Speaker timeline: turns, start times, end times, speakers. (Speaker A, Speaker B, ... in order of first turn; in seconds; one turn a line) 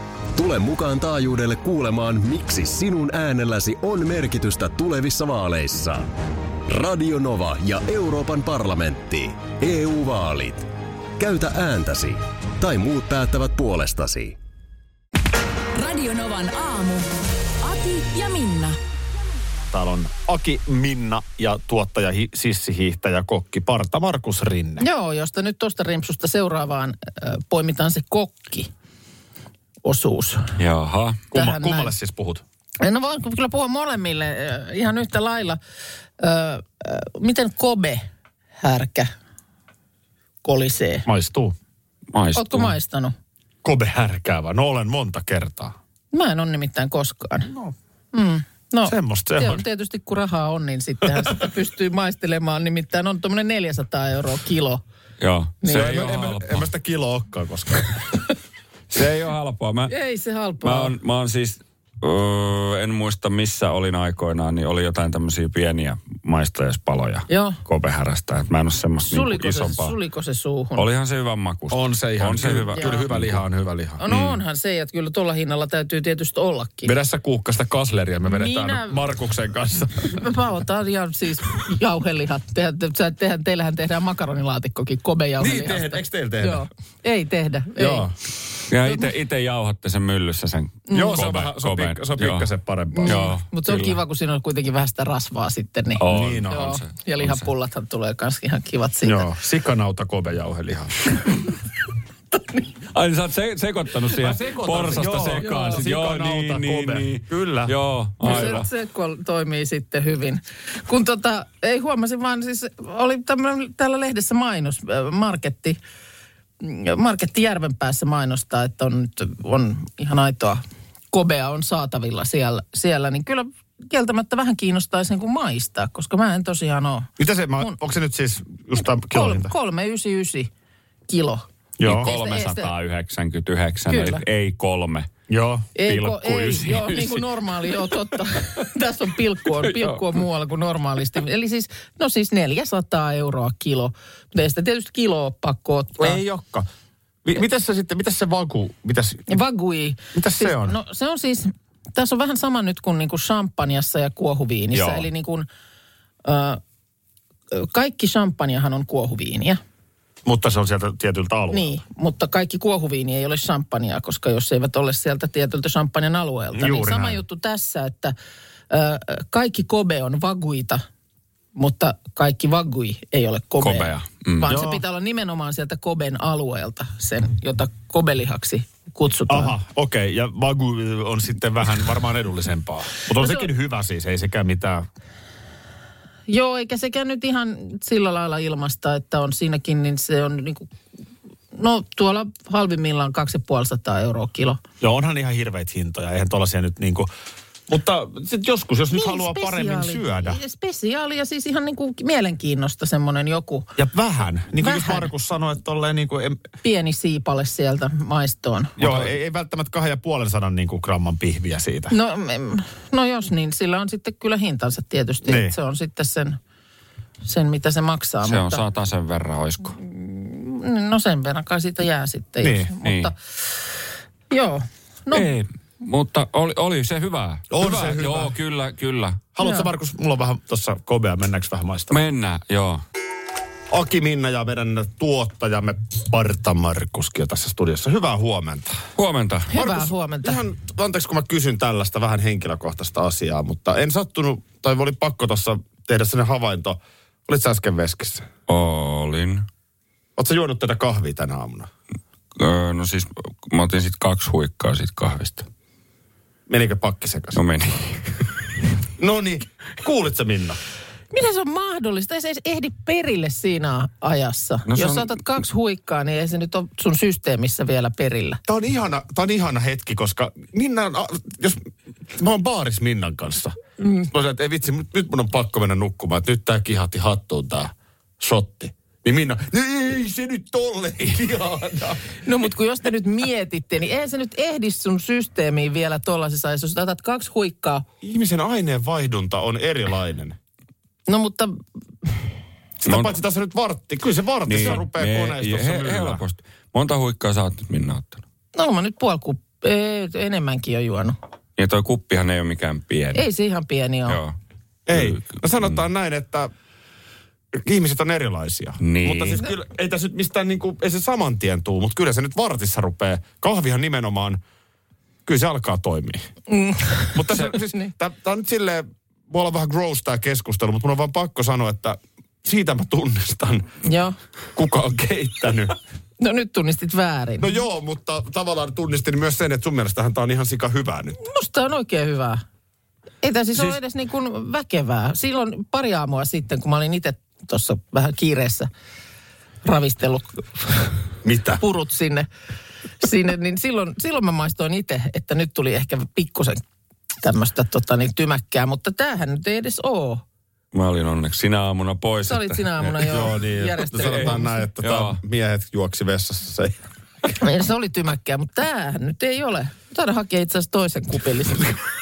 Speaker A: 0.3-6.1
Speaker A: 6.7-10.7
Speaker A: 11.2-14.4
Speaker B: 15.7-17.1
Speaker B: 17.6-18.8
Speaker C: 19.7-24.9
Speaker D: 24.8-28.7
Speaker D: 29.8-30.5
Speaker E: 30.6-31.2
Speaker C: 31.3-32.4
Speaker D: 31.3-31.9
Speaker D: 32.8-35.6
Speaker D: 36.2-38.0
Speaker D: 38.6-39.1
Speaker D: 40.4-41.1
Speaker C: 41.1-41.5
Speaker E: 42.1-42.7
Speaker D: 42.4-43.1
Speaker C: 43.6-45.8
Speaker D: 46.1-47.5
Speaker D: 48.1-54.8
Speaker C: 48.9-49.6
Speaker E: 55.2-56.7
Speaker D: 55.6-56.0
Speaker C: 55.7-57.9
Speaker E: 58.9-60.0
Speaker D: 59.9-61.0
Speaker E: 60.6-70.0
Speaker D: 67.3-67.6
Speaker D: 69.1-70.9
Speaker E: 70.8-73.4
Speaker C: 71.7-74.0
Speaker D: 72.8-73.0
Speaker D: 74.0-76.9
Speaker E: 74.1-74.4
Speaker C: 76.8-80.2
Speaker D: 78.3-79.0
Speaker D: 80.1-88.1
Speaker C: 85.4-86.6
Speaker C: 87.8-88.1
Speaker E: 88.7-92.5
Speaker D: 88.8-89.1
Speaker D: 90.9-91.3
Speaker C: 90.9-93.3
Speaker D: 92.9-99.3
Speaker E: 93.0-94.0
Speaker E: 96.0-97.5
Speaker C: 96.1-96.8
Speaker C: 99.0-101.1
Speaker E: 102.9-108.7
Speaker C: 104.1-107.7
Speaker D: 105.4-105.8
Speaker D: 108.2-115.8
Speaker D: 116.6-127.1
Speaker C: 127.2-129.5
Speaker D: 129.1-130.5
Speaker D: 131.1-132.7
Speaker C: 131.8-132.1
Speaker E: 131.8-135.1
Speaker D: 133.9-134.2
Speaker C: 135.3-135.7
Speaker D: 135.8-146.2
Speaker E: 135.9-137.8
Speaker E: 139.6-140.0
Speaker C: 146.0-146.7
Speaker C: 147.2-149.4
Speaker D: 149.3-155.5
Speaker C: 150.1-150.8
Speaker C: 154.7-155.1
Speaker D: 156.2-156.6
Speaker D: 157.5-159.6
Speaker C: 160.2-161.8
Speaker D: 161.5-168.1
Speaker C: 166.5-167.2
Speaker D: 168.7-170.8
Speaker D: 171.6-179.6
Speaker E: 173.6-174.5
Speaker C: 174.5-174.8
Speaker C: 179.3-184.9
Speaker D: 183.1-183.5
Speaker D: 186.3-190.7
Speaker D: 191.5-194.6
Speaker C: 194.8-197.1
Speaker C: 197.7-200.4
Speaker D: 198.9-203.7
Speaker C: 203.8-206.4
Speaker D: 204.6-205.1
Speaker D: 206.6-208.8
Speaker C: 208.8-212.0
Speaker D: 211.9-216.4
Speaker C: 215.2-215.5
Speaker D: 217.2-218.6
Speaker E: 218.2-219.8
Speaker D: 219.8-223.2
Speaker C: 222.4-222.7
Speaker E: 222.8-223.1
Speaker D: 224.3-225.3
Speaker E: 225.1-229.2
Speaker C: 227.5-228.4
Speaker C: 229.3-232.0
Speaker D: 229.4-229.7
Speaker E: 231.9-232.8
Speaker C: 233.7-238.9
Speaker E: 239.0-239.5
Speaker D: 239.5-240.4
Speaker C: 239.5-248.3
Speaker E: 248.5-249.5
Speaker C: 250.2-251.7
Speaker E: 252.4-255.5
Speaker C: 256.5-257.4
Speaker E: 257.3-258.3
Speaker C: 259.0-260.6
Speaker D: 261.1-268.4
Speaker E: 264.7-265.2
Speaker C: 268.5-282.1
Speaker D: 282.2-287.9
Speaker C: 288.0-290.4
Speaker D: 291.1-292.2
Speaker C: 292.8-296.2
Speaker E: 292.9-293.1
Speaker E: 294.5-298.2
Speaker D: 298.6-301.2
Speaker E: 301.6-303.2
Speaker D: 303.1-304.2
Speaker E: 304.1-304.4
Speaker C: 304.9-306.5
Speaker E: 304.9-305.8
Speaker C: 307.5-314.4
Speaker E: 308.8-309.4
Speaker C: 315.2-316.2
Speaker D: 316.5-317.9
Speaker C: 317.1-323.7
Speaker D: 323.8-324.2
Speaker C: 324.6-325.8
Speaker D: 326.2-327.5
Speaker C: 327.4-331.2
Speaker D: 331.2-332.4
Speaker D: 333.2-338.7
Speaker D: 339.6-340.9
Speaker C: 341.2-341.6
Speaker D: 341.6-342.3
Speaker D: 343.0-346.6
Speaker D: 347.2-350.2
Speaker E: 350.7-353.2
Speaker D: 352.2-354.5
Speaker C: 353.0-356.8
Speaker E: 353.9-355.2
Speaker D: 357.4-361.8